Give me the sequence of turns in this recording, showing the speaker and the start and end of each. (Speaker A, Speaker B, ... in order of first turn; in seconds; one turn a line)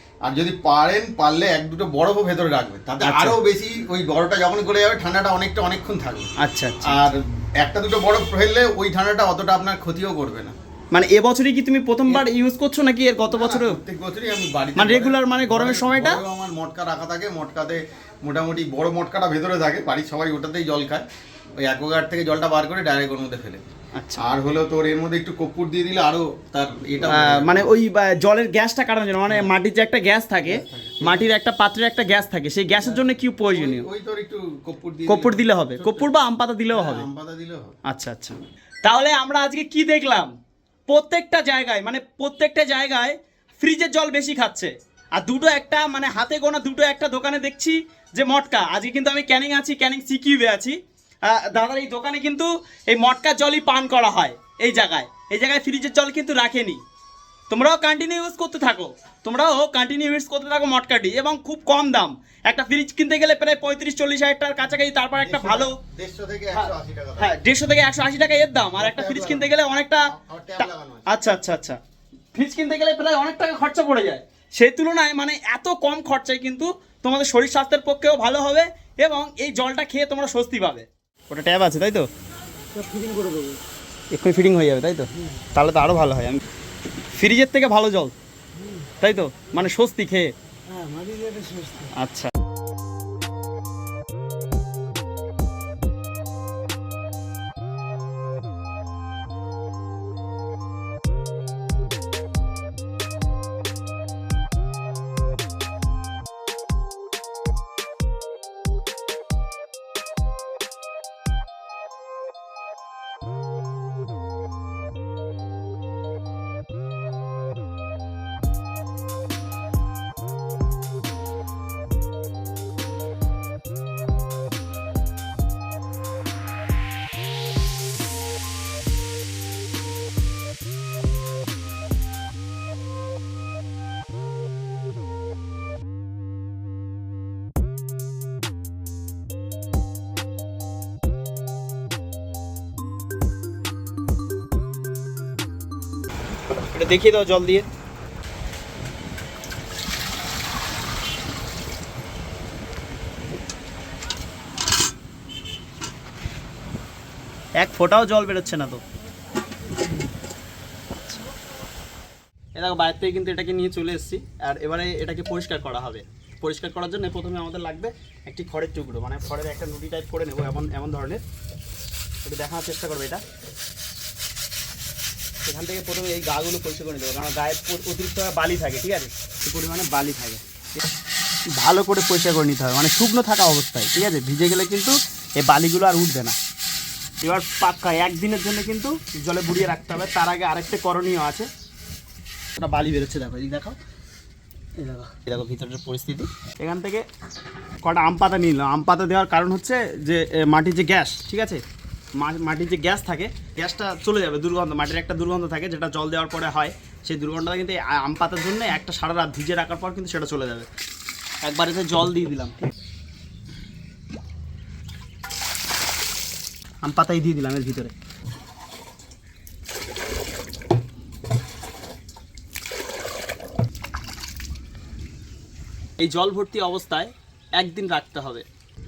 Speaker A: 0.2-6.3
Speaker B: 3.0-3.4
Speaker B: 6.4-7.0
Speaker A: 6.8-10.5
Speaker B: 10.9-13.8
Speaker A: 13.3-21.0
Speaker B: 14.8-16.2
Speaker A: 21.6-23.6
Speaker B: 23.9-24.2
Speaker A: 24.2-27.7
Speaker B: 27.1-33.9
Speaker A: 30.4-31.3
Speaker A: 32.8-36.1
Speaker B: 35.1-37.1
Speaker A: 36.7-37.7
Speaker B: 37.9-40.3
Speaker B: 40.9-56.8
Speaker B: 57.5-65.8
Speaker A: 65.2-67.3
Speaker B: 66.5-71.8
Speaker A: 68.8-69.5
Speaker A: 70.1-71.1
Speaker B: 72.3-82.1
Speaker C: 82.7-83.6
Speaker B: 84.1-86.4
Speaker B: 87.1-88.1
Speaker B: 88.8-90.3
Speaker C: 90.7-91.9
Speaker B: 91.9-92.3
Speaker B: 146.7-147.7
Speaker B: 157.6-158.8
Speaker B: 162.5-171.2
Speaker B: 172.2-173.2
Speaker B: 175.4-180.4
Speaker B: 181.6-186.3
Speaker B: 187.2-191.5
Speaker B: 192.6-193.8
Speaker B: 194.8-197.1
Speaker B: 197.8-201.6
Speaker B: 202.2-210.7
Speaker B: 211.4-212.7
Speaker B: 216.8-217.9
Speaker B: 226.0-228.4